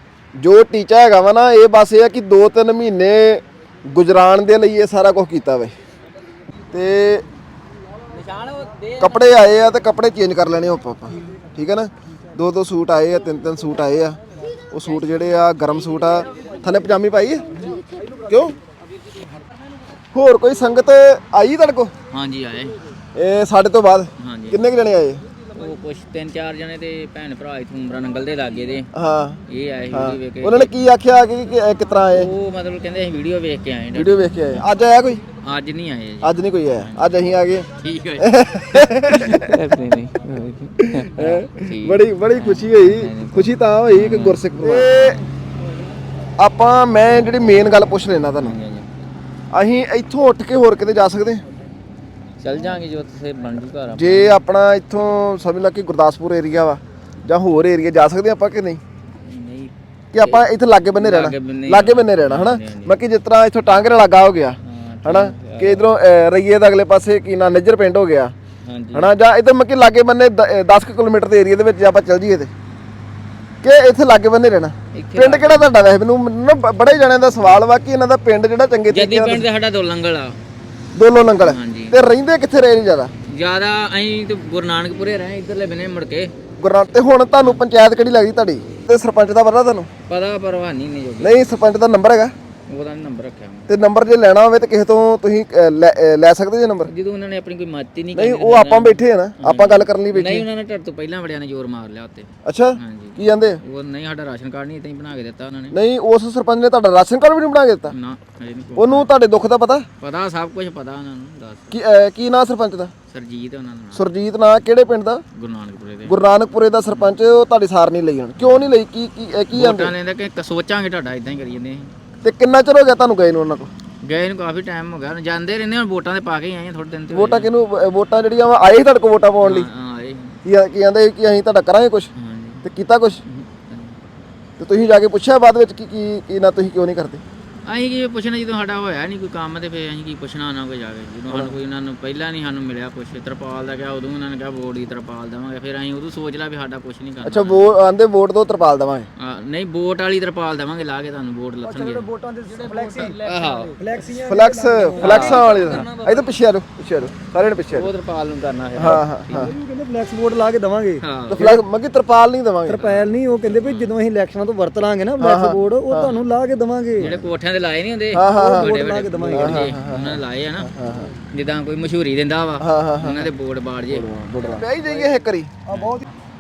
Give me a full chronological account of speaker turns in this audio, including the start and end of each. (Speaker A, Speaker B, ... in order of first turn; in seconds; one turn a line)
Speaker A: 0.4-5.8
Speaker A: 6.7-7.2
Speaker B: 8.1-9.2
Speaker A: 9.0-14.2
Speaker A: 14.7-17.6
Speaker A: 18.3-18.6
Speaker A: 20.1-21.9
Speaker B: 22.1-22.8
Speaker A: 23.1-25.2
Speaker B: 24.2-24.6
Speaker B: 25.6-28.9
Speaker A: 28.9-29.4
Speaker B: 29.5-30.7
Speaker A: 29.9-32.3
Speaker B: 32.1-34.7
Speaker A: 33.9-35.2
Speaker B: 35.4-37.1
Speaker A: 36.2-37.7
Speaker B: 37.8-45.2
Speaker A: 38.2-39.6
Speaker A: 40.8-45.2
Speaker A: 46.4-48.6
Speaker B: 48.4-48.9
Speaker A: 49.5-51.5
Speaker B: 52.4-54.4
Speaker A: 53.9-58.8
Speaker B: 59.2-63.0
Speaker A: 60.1-68.3
Speaker B: 64.6-65.9
Speaker B: 68.7-69.1
Speaker A: 68.9-72.5
Speaker A: 73.6-79.5
Speaker B: 74.9-75.7
Speaker B: 78.9-80.4
Speaker A: 80.9-83.1
Speaker B: 81.4-82.0
Speaker B: 83.3-86.3
Speaker A: 86.6-89.9
Speaker B: 90.1-91.5
Speaker A: 91.2-92.3
Speaker B: 92.7-93.7
Speaker A: 93.7-96.9
Speaker B: 96.9-105.8
Speaker A: 98.1-100.5
Speaker A: 102.5-103.6
Speaker A: 105.7-108.0
Speaker B: 107.9-109.1
Speaker A: 108.8-109.9
Speaker B: 110.0-111.8
Speaker A: 111.7-112.9
Speaker B: 113.1-114.0
Speaker A: 113.9-115.2
Speaker B: 115.3-116.2
Speaker A: 116.0-119.9
Speaker B: 118.4-118.7
Speaker B: 119.5-121.9
Speaker A: 122.2-123.7
Speaker B: 124.0-127.5
Speaker A: 127.1-129.7
Speaker B: 129.4-130.4
Speaker A: 130.4-132.1
Speaker B: 132.2-132.6
Speaker A: 132.6-133.2
Speaker B: 133.3-134.0
Speaker A: 134.6-137.2
Speaker B: 137.7-147.8
Speaker A: 147.2-149.1
Speaker B: 149.2-152.1
Speaker C: 151.6-153.2
Speaker B: 153.2-153.8
Speaker C: 153.8-155.4
Speaker A: 154.2-157.9
Speaker B: 155.0-155.9
Speaker B: 157.7-159.5
Speaker A: 158.8-159.6
Speaker C: 159.3-161.6
Speaker B: 161.0-161.6
Speaker A: 161.3-162.8
Speaker C: 162.7-167.1
Speaker B: 162.8-163.9
Speaker A: 165.2-166.2
Speaker B: 167.0-170.7
Speaker A: 167.0-167.3
Speaker A: 168.1-168.8
Speaker C: 168.3-169.6
Speaker A: 169.3-171.1
Speaker B: 171.3-174.1
Speaker A: 172.6-173.3
Speaker A: 173.9-175.6
Speaker C: 175.7-176.1
Speaker B: 175.7-176.1